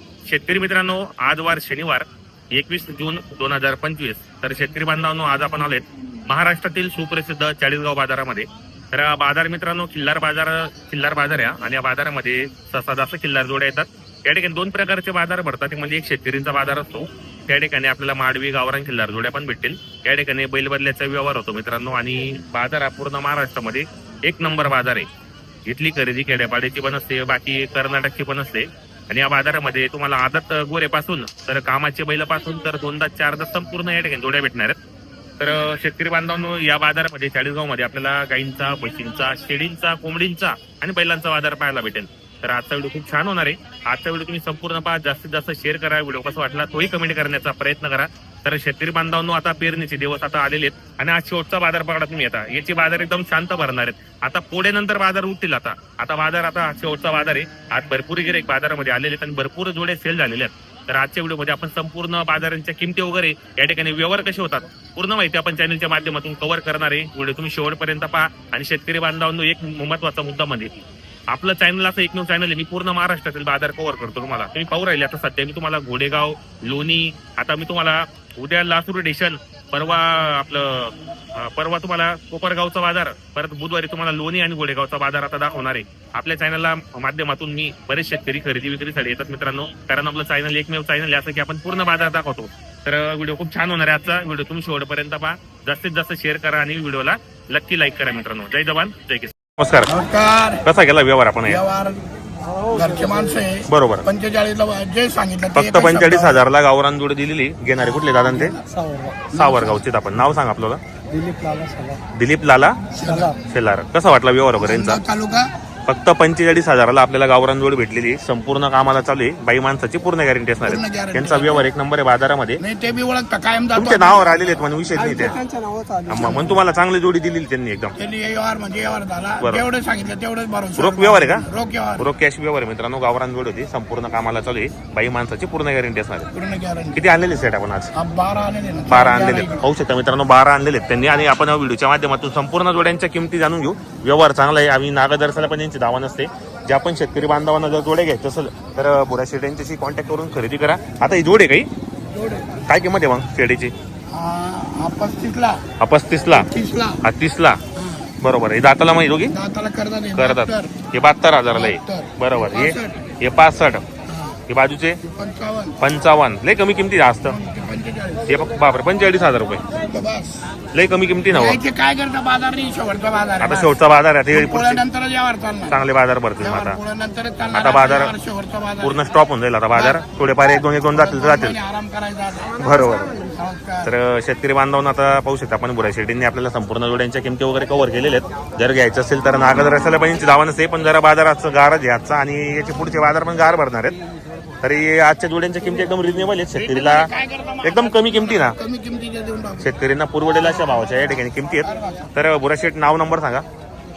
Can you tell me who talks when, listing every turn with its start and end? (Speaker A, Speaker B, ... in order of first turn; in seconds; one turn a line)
Speaker A: 0.2-25.1
Speaker A: 25.7-34.8
Speaker A: 35.4-70.7
Speaker A: 71.3-99.9
Speaker B: 99.9-100.6
Speaker A: 100.6-101.6
Speaker B: 101.5-102.0
Speaker C: 102.7-103.2
Speaker B: 102.7-106.3
Speaker A: 103.7-104.1
Speaker A: 105.5-108.6
Speaker C: 108.7-109.3
Speaker A: 109.3-110.8
Speaker B: 109.3-109.7
Speaker C: 111.1-112.0
Speaker A: 112.1-112.8
Speaker B: 112.9-113.3
Speaker C: 113.0-113.3
Speaker A: 113.4-115.0
Speaker B: 114.6-115.5
Speaker A: 115.9-122.6
Speaker B: 120.6-121.6
Speaker B: 122.6-124.5
Speaker A: 123.7-125.4
Speaker C: 125.0-126.4
Speaker A: 126.1-127.9
Speaker B: 126.2-126.5
Speaker B: 128.0-132.1
Speaker A: 129.4-129.7
Speaker A: 130.8-136.3
Speaker B: 136.3-137.0
Speaker A: 136.9-137.9
Speaker B: 137.9-139.6
Speaker A: 138.9-151.7
Speaker B: 152.1-152.5
Speaker A: 152.6-153.7
Speaker B: 154.1-155.6
Speaker A: 155.8-156.5
Speaker B: 156.4-157.0
Speaker A: 157.0-157.6
Speaker B: 157.8-158.1
Speaker A: 158.2-159.3
Speaker B: 159.3-160.7
Speaker A: 160.1-163.8
Speaker B: 161.5-163.1
Speaker B: 164.1-164.4
Speaker A: 164.5-165.0
Speaker B: 165.0-165.8
Speaker A: 165.8-167.4
Speaker B: 167.3-168.4
Speaker A: 168.2-169.6
Speaker B: 169.8-170.5
Speaker A: 170.7-171.6
Speaker B: 171.3-173.8
Speaker A: 173.4-174.8
Speaker B: 174.3-175.8
Speaker A: 175.7-176.8
Speaker B: 176.4-178.9
Speaker A: 177.5-178.1
Speaker A: 178.8-181.6
Speaker B: 179.7-180.0
Speaker B: 180.9-183.9
Speaker A: 182.6-183.2
Speaker A: 183.8-193.9
Speaker A: 194.6-197.1
Speaker B: 196.6-199.7
Speaker A: 197.6-198.6
Speaker A: 199.6-203.4
Speaker B: 201.7-202.0